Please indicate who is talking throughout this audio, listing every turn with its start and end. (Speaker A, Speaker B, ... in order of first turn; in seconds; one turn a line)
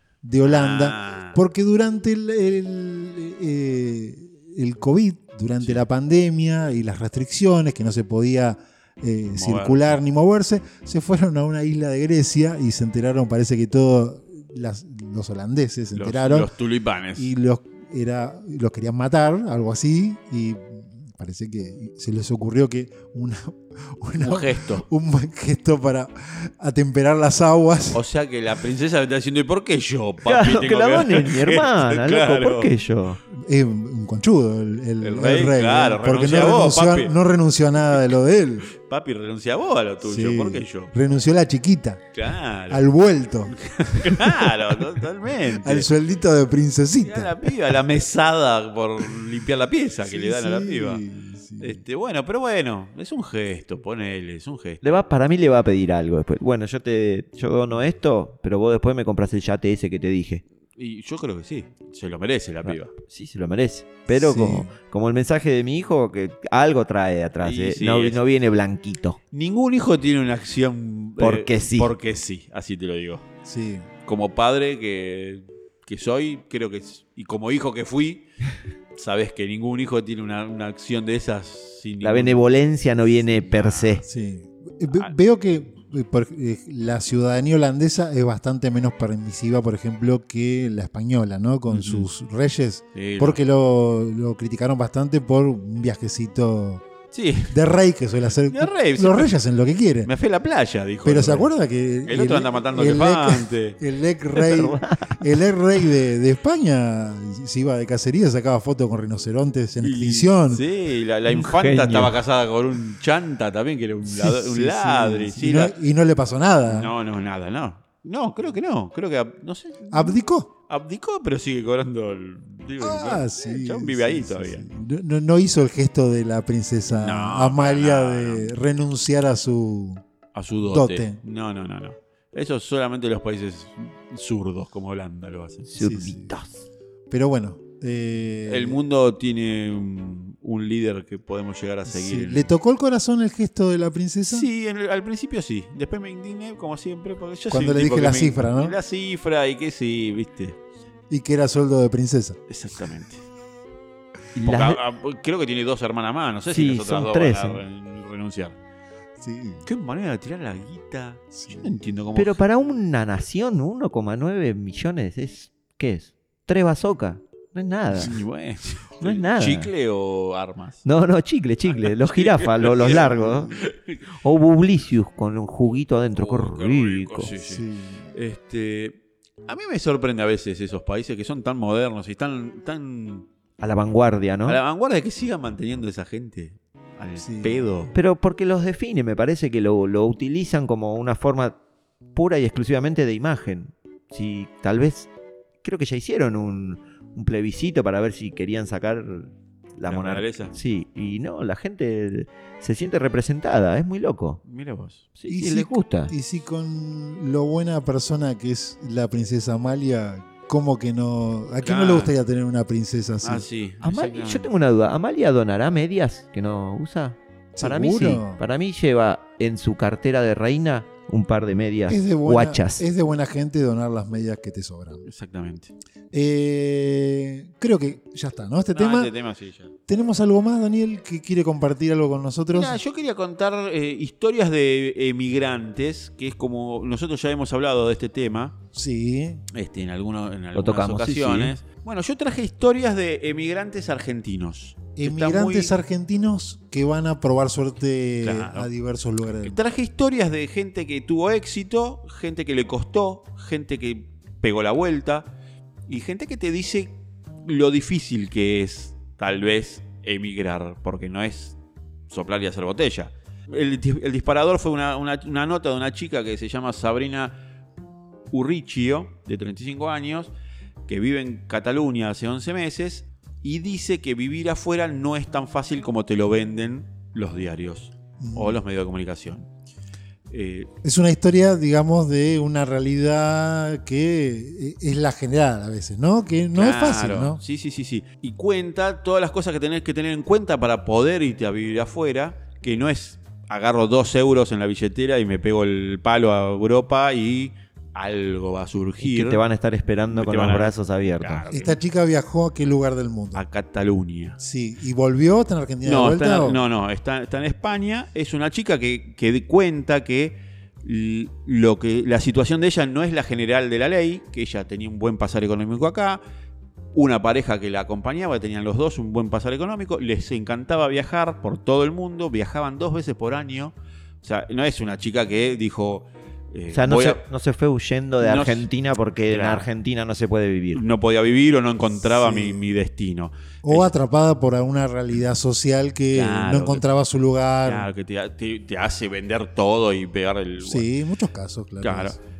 Speaker A: 0.2-16.5
Speaker B: 0.4-1.4
Speaker B: 9.3-10.0
Speaker B: 15.9-17.3
Speaker A: 17.1-28.0
Speaker B: 24.2-24.9
Speaker B: 27.9-32.7
Speaker C: 30.2-33.2
Speaker A: 33.3-38.7
Speaker B: 35.0-37.1
Speaker B: 38.7-40.9
Speaker A: 40.0-42.1
Speaker B: 42.1-42.8
Speaker A: 42.7-44.8
Speaker B: 43.5-45.9
Speaker A: 45.5-47.5
Speaker B: 47.0-51.0
Speaker A: 50.0-51.8
Speaker B: 51.6-55.0
Speaker C: 54.8-60.4
Speaker B: 60.8-62.9
Speaker C: 62.6-69.2
Speaker A: 64.1-64.7
Speaker B: 67.4-68.2
Speaker B: 69.3-73.2
Speaker C: 71.2-71.9
Speaker A: 73.4-73.9
Speaker B: 74.0-78.2
Speaker B: 78.9-82.5
Speaker C: 82.0-84.0
Speaker B: 83.5-84.1
Speaker A: 84.0-96.8
Speaker B: 91.7-92.1
Speaker B: 92.9-93.4
Speaker B: 97.1-97.5
Speaker A: 97.5-100.1
Speaker B: 98.5-99.3
Speaker B: 100.0-101.5
Speaker A: 101.0-110.6
Speaker B: 102.0-103.8
Speaker C: 104.3-105.2
Speaker B: 109.8-115.7
Speaker C: 111.3-112.2
Speaker A: 114.0-116.9
Speaker B: 116.6-120.2
Speaker A: 119.9-120.5
Speaker B: 120.7-124.7
Speaker A: 122.8-130.0
Speaker B: 126.9-128.6
Speaker B: 130.3-135.7
Speaker A: 130.7-131.2
Speaker C: 135.7-136.5
Speaker A: 135.8-136.3
Speaker A: 137.1-138.8
Speaker B: 138.5-142.5
Speaker A: 141.9-144.5
Speaker B: 144.3-150.6
Speaker A: 147.5-148.8
Speaker A: 151.1-152.4
Speaker B: 152.5-153.2
Speaker C: 154.3-154.8
Speaker B: 154.4-158.6
Speaker C: 156.5-157.6
Speaker A: 159.2-159.7
Speaker B: 159.7-162.4
Speaker A: 161.3-161.7
Speaker C: 162.1-168.1
Speaker B: 168.0-170.8
Speaker C: 169.0-169.7
Speaker C: 170.8-173.6
Speaker B: 171.7-174.0
Speaker C: 174.2-177.3
Speaker B: 176.1-183.3
Speaker A: 177.4-178.1
Speaker C: 183.6-184.6
Speaker B: 184.4-187.9
Speaker A: 187.2-187.7
Speaker C: 187.9-191.6
Speaker C: 192.1-195.1
Speaker C: 195.6-204.4
Speaker B: 199.9-200.5
Speaker B: 204.5-205.1
Speaker C: 205.1-206.1
Speaker A: 205.3-213.4
Speaker B: 211.6-212.1
Speaker B: 213.2-214.5
Speaker C: 213.8-222.8
Speaker A: 217.6-218.4
Speaker A: 221.9-225.1
Speaker B: 225.1-225.7
Speaker A: 226.1-229.1
Speaker B: 228.7-229.7
Speaker A: 229.9-232.8
Speaker B: 232.5-238.6
Speaker A: 238.7-239.4
Speaker B: 239.5-245.7
Speaker C: 240.5-241.5
Speaker A: 244.9-249.6
Speaker B: 248.2-248.7
Speaker B: 249.4-255.3
Speaker B: 255.9-256.9
Speaker B: 257.4-261.6
Speaker B: 262.1-267.4
Speaker B: 268.3-270.3
Speaker B: 270.9-279.5
Speaker A: 278.2-278.6
Speaker B: 280.3-280.7
Speaker A: 280.8-287.4
Speaker B: 286.5-299.4
Speaker C: 299.0-301.4
Speaker B: 300.1-301.8
Speaker A: 301.5-303.4
Speaker B: 303.3-304.4
Speaker A: 304.4-306.6
Speaker B: 305.8-316.2
Speaker B: 316.9-327.2
Speaker C: 326.7-330.8
Speaker B: 328.2-328.7
Speaker B: 329.3-329.7
Speaker B: 330.7-333.9
Speaker A: 332.0-332.6
Speaker A: 333.6-337.9
Speaker B: 336.1-336.8
Speaker B: 337.6-340.9
Speaker A: 340.6-342.2
Speaker B: 341.8-342.2